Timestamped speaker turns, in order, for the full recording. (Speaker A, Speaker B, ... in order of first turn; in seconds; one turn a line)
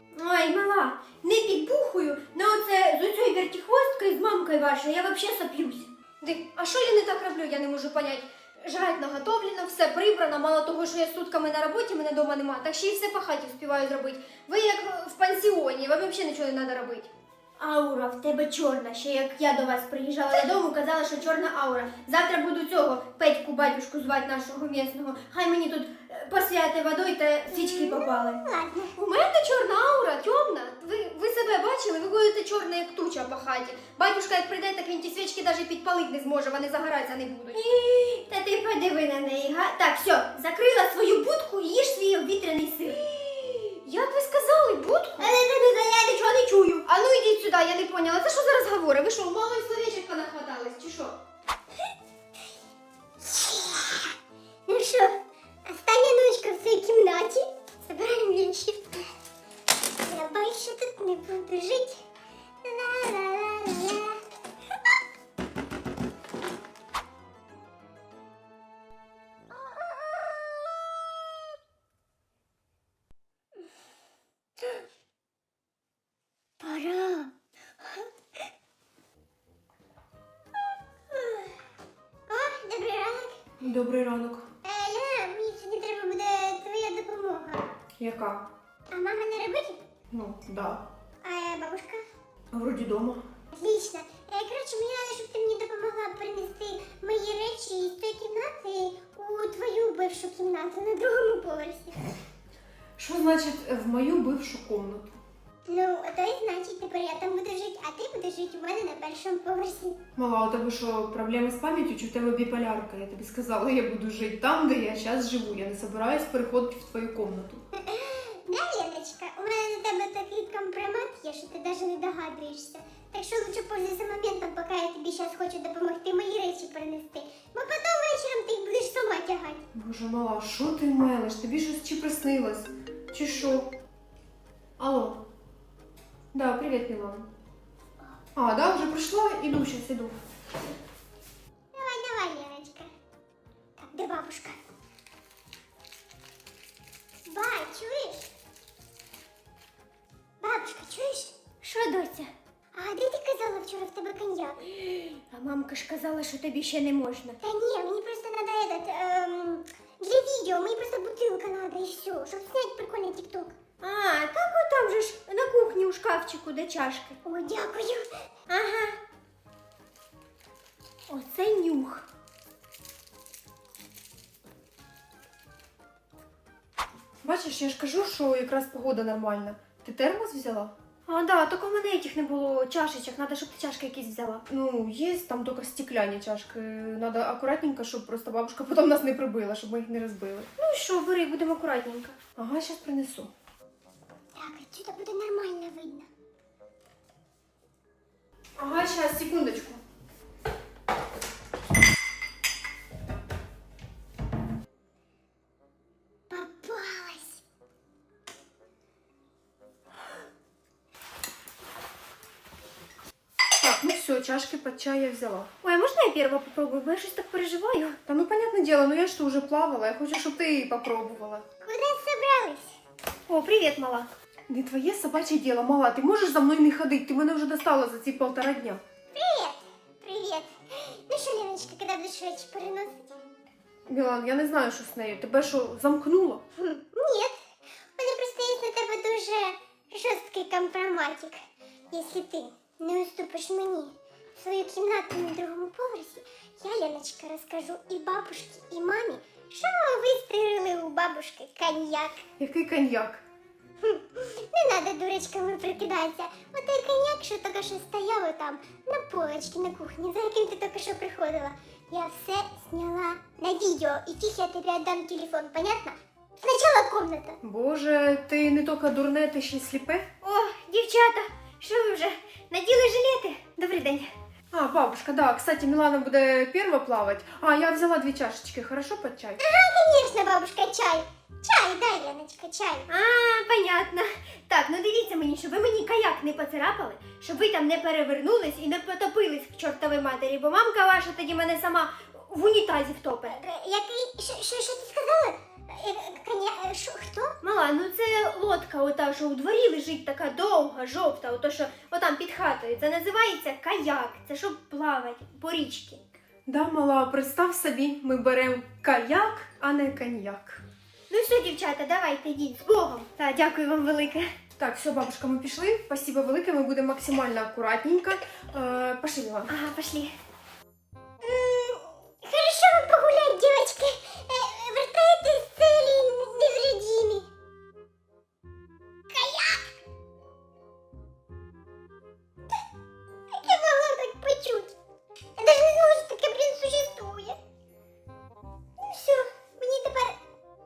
Speaker A: 0.1-28.4
Speaker B: 27.5-29.0
Speaker A: 28.9-51.1
Speaker B: 53.3-54.1
Speaker B: 54.6-59.1
Speaker B: 60.0-62.0
Speaker B: 62.6-64.2
Speaker B: 69.6-70.7
Speaker B: 76.6-78.0
Speaker B: 81.1-81.5
Speaker B: 82.3-83.4
Speaker C: 83.6-84.5
Speaker B: 84.6-87.7
Speaker C: 88.0-88.5
Speaker B: 88.9-89.8
Speaker C: 90.1-90.8
Speaker B: 91.2-92.0
Speaker C: 92.5-93.2
Speaker B: 93.5-102.0
Speaker C: 103.0-105.1
Speaker B: 105.7-110.0
Speaker C: 110.2-117.6
Speaker B: 117.7-129.6
Speaker C: 129.7-133.7
Speaker C: 134.8-135.2
Speaker C: 136.3-137.3
Speaker C: 138.3-140.1
Speaker B: 141.7-142.9
Speaker B: 143.8-144.6
Speaker B: 147.2-148.3
Speaker B: 150.4-151.3
Speaker A: 151.6-152.3
Speaker B: 152.7-154.7
Speaker A: 154.8-157.4
Speaker B: 157.4-163.6
Speaker A: 163.8-167.2
Speaker B: 167.2-168.1
Speaker A: 168.5-169.0
Speaker A: 171.1-172.1
Speaker C: 177.2-180.7
Speaker A: 181.1-184.4
Speaker C: 184.5-190.5
Speaker A: 190.6-192.2
Speaker C: 192.4-193.3
Speaker B: 194.3-196.1
Speaker C: 198.6-199.8
Speaker B: 206.3-207.4
Speaker C: 213.6-215.5
Speaker A: 215.6-218.0
Speaker C: 218.1-221.4
Speaker B: 221.6-222.8
Speaker A: 223.3-224.1
Speaker C: 224.5-228.8
Speaker B: 229.1-233.3
Speaker C: 233.9-236.4
Speaker B: 236.6-237.4
Speaker B: 238.0-241.4
Speaker B: 241.9-252.2
Speaker C: 252.4-253.2
Speaker B: 253.8-267.4
Speaker C: 267.4-270.1
Speaker A: 270.2-274.1
Speaker C: 274.5-279.4
Speaker B: 279.4-282.9
Speaker A: 282.9-293.4
Speaker B: 293.3-297.4
Speaker A: 297.4-306.0
Speaker C: 306.5-310.6
Speaker A: 311.1-314.3
Speaker C: 314.6-319.5
Speaker A: 319.5-320.1
Speaker B: 321.2-327.3
Speaker B: 329.1-329.6
Speaker B: 333.3-334.7
Speaker B: 335.4-337.4
Speaker B: 338.8-340.2